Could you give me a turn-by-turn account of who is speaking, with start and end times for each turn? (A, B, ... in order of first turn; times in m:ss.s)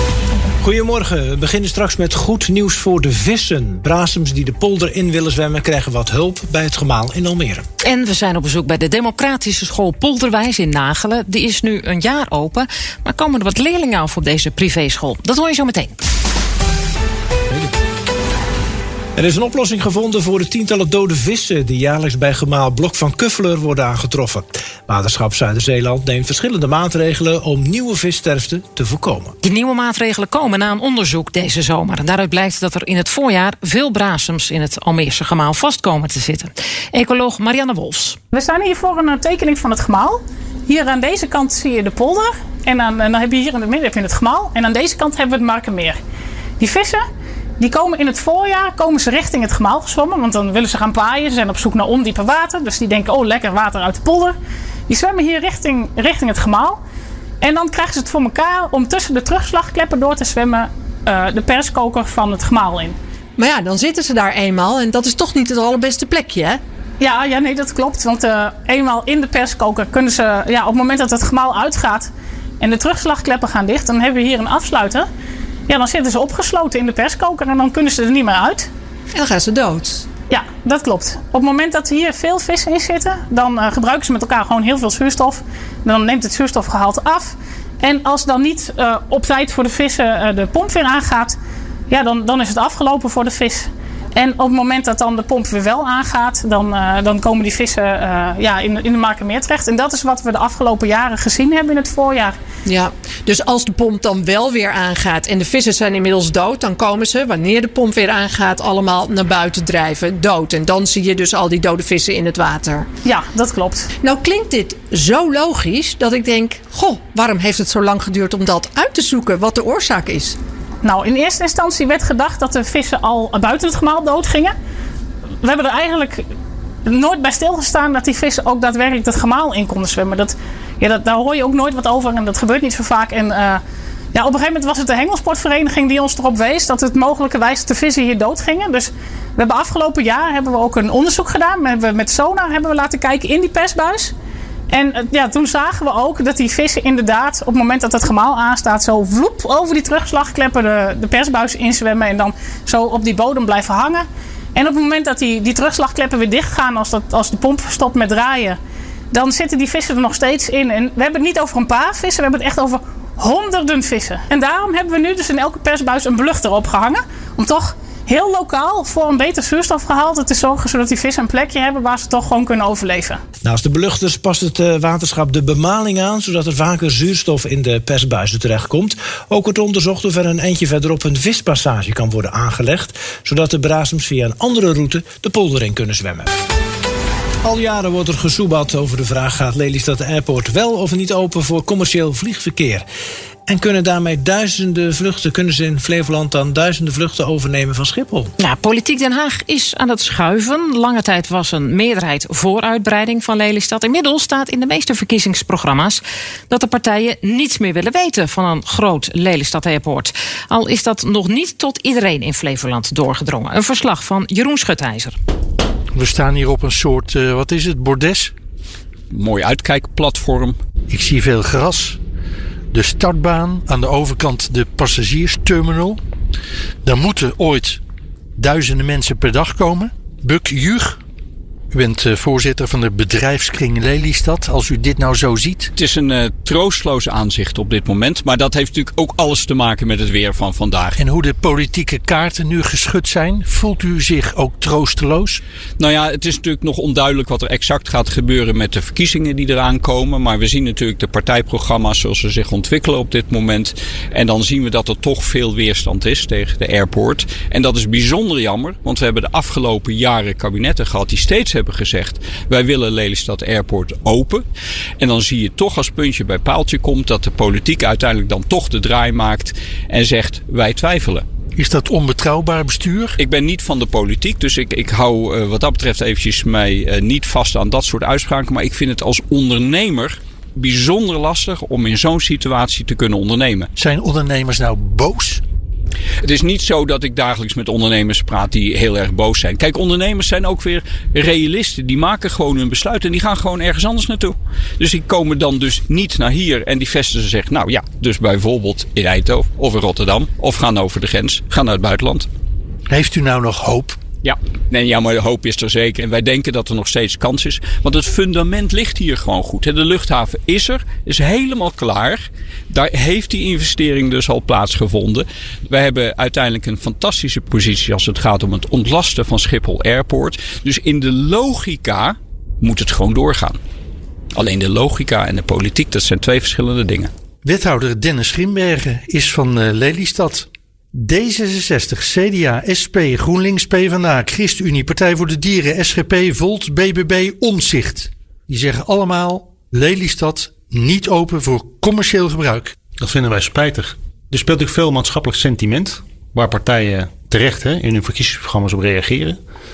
0:00.6-0:07.6 A
0:07.8-0:16.0 B
0:19.2-0:29.4 A
0:29.4-0:38.2 B
0:38.3-0:46.0 C
0:46.6-0:47.0 C
0:47.6-0:54.4 C
0:54.9-0:56.8 C
0:57.4-1:03.0 C
1:03.4-1:06.6 D
1:07.0-1:15.1 C
1:15.7-1:18.7 C
1:19.1-1:20.0 D
1:20.3-1:31.4 C
1:31.9-1:42.4 C
1:42.7-1:52.9 D
1:53.0-1:53.9 C
1:54.0-2:00.4 D
2:00.8-2:04.5 C
2:05.4-2:06.2 C
2:06.9-2:13.6 C
2:14.1-2:24.1 C
2:24.7-2:38.6 C
2:39.1-2:53.2 C
2:53.4-3:06.3 A
3:07.4-3:12.9 A
3:13.5-3:18.3 A
3:18.4-3:35.2 B
3:35.9-3:38.3 E
3:39.1-3:40.6 F
3:40.9-3:42.0 E
3:42.7-3:46.0 E
3:46.8-3:47.8 E
3:48.4-3:51.0 E
3:51.7-3:55.7 E
3:55.8-4:01.0 F
4:01.0-4:05.4 E
4:05.8-4:24.4 F
4:25.0-4:31.2 F
4:31.6-4:33.2 E
4:33.2-4:43.7 F
4:43.8-4:45.4 E
4:46.2-5:02.3 F
5:02.9-5:04.0 E
5:04.2-5:23.6 F
5:24.4-5:27.1 F
5:27.4-5:42.7 E
5:43.0-5:49.4 C